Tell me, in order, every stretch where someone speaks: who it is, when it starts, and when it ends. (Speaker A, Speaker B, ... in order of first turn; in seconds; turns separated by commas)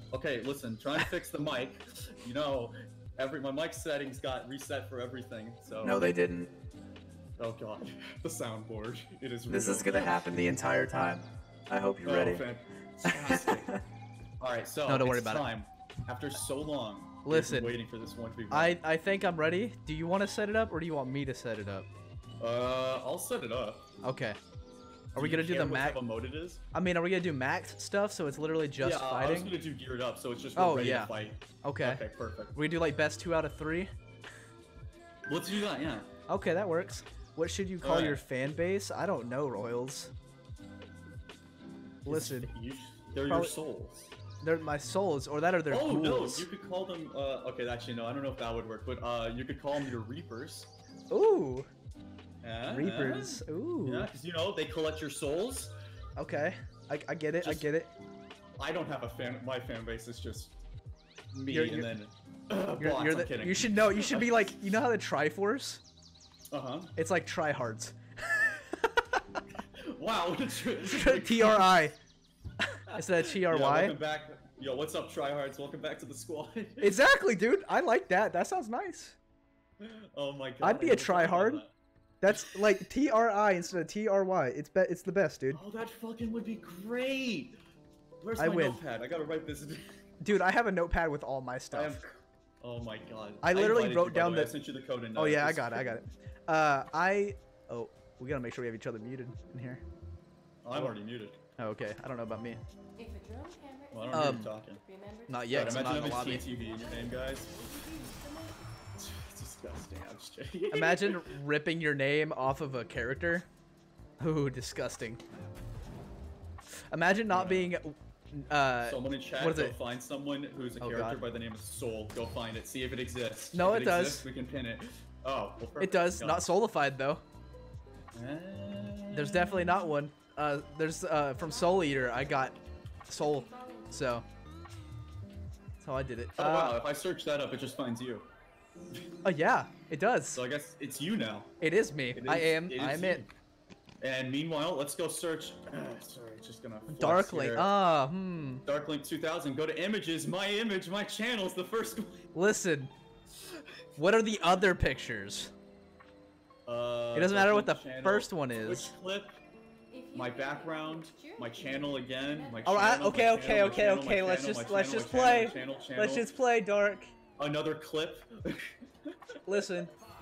Speaker A: 0.1-6.1, Speaker B: 5.8-6.5, Speaker A: 7.4-10.2, Speaker B: 9.5-12.4, Speaker A: 12.0-13.7, Speaker B: 13.0-13.8, Speaker A: 14.4-18.8, Speaker B: 14.9-15.5, Speaker B: 17.2-17.8, Speaker B: 18.5-21.9, Speaker A: 22.4-23.9, Speaker B: 24.0-24.4, Speaker A: 25.1-26.6, Speaker B: 25.1-26.0, Speaker B: 26.7-29.5, Speaker A: 28.8-32.5, Speaker B: 30.6-31.1, Speaker B: 31.6-32.0, Speaker B: 32.5-33.9, Speaker A: 35.3-36.1, Speaker B: 36.3-40.1, Speaker A: 37.8-38.2, Speaker B: 42.0-42.5, Speaker A: 42.0-44.1, Speaker B: 43.3-43.5, Speaker B: 44.4-46.5, Speaker A: 45.7-50.7, Speaker B: 51.1-51.7, Speaker A: 52.4-55.7, Speaker B: 52.7-54.1, Speaker B: 56.2-57.9, Speaker A: 57.4-57.7, Speaker A: 58.6-60.6, Speaker A: 61.3-64.5, Speaker B: 61.5-61.9, Speaker B: 62.8-65.8, Speaker A: 66.5-66.9, Speaker B: 67.0-69.4, Speaker A: 69.8-71.8, Speaker B: 70.8-72.0, Speaker B: 72.9-74.0, Speaker A: 72.9-77.0, Speaker B: 76.8-79.2, Speaker A: 79.8-81.7, Speaker B: 80.6-81.6, Speaker B: 82.2-85.6, Speaker A: 82.3-82.6, Speaker A: 85.5-87.6, Speaker A: 88.2-89.9, Speaker B: 88.4-88.8, Speaker B: 90.2-92.0, Speaker A: 91.7-95.9, Speaker B: 93.4-94.5, Speaker B: 95.2-99.8, Speaker A: 100.6-101.3, Speaker B: 101.6-102.6, Speaker C: 103.0-108.7, Speaker A: 103.9-104.8, Speaker B: 104.1-104.6, Speaker B: 105.3-106.4, Speaker A: 105.5-107.5, Speaker A: 109.0-111.3, Speaker B: 110.7-113.5, Speaker B: 114.2-115.2, Speaker B: 116.9-119.8, Speaker A: 117.3-117.8, Speaker A: 118.8-126.5, Speaker B: 120.8-121.2, Speaker B: 123.5-124.3, Speaker B: 125.8-127.2, Speaker A: 128.2-129.9, Speaker B: 129.1-132.5, Speaker C: 131.3-134.0, Speaker B: 133.1-134.2, Speaker B: 135.8-136.8, Speaker A: 136.4-138.3, Speaker B: 139.2-140.4, Speaker A: 140.3-141.5, Speaker B: 141.6-143.2, Speaker A: 142.1-143.3, Speaker A: 144.0-147.7, Speaker B: 146.9-148.6, Speaker A: 148.7-152.2, Speaker B: 152.3-152.9, Speaker B: 154.0-155.5, Speaker A: 156.7-159.4, Speaker B: 157.1-158.9, Speaker C: 159.9-163.3, Speaker A: 160.1-166.3, Speaker B: 162.7-167.1, Speaker C: 164.9-165.9, Speaker A: 167.4-169.8, Speaker B: 169.5-169.9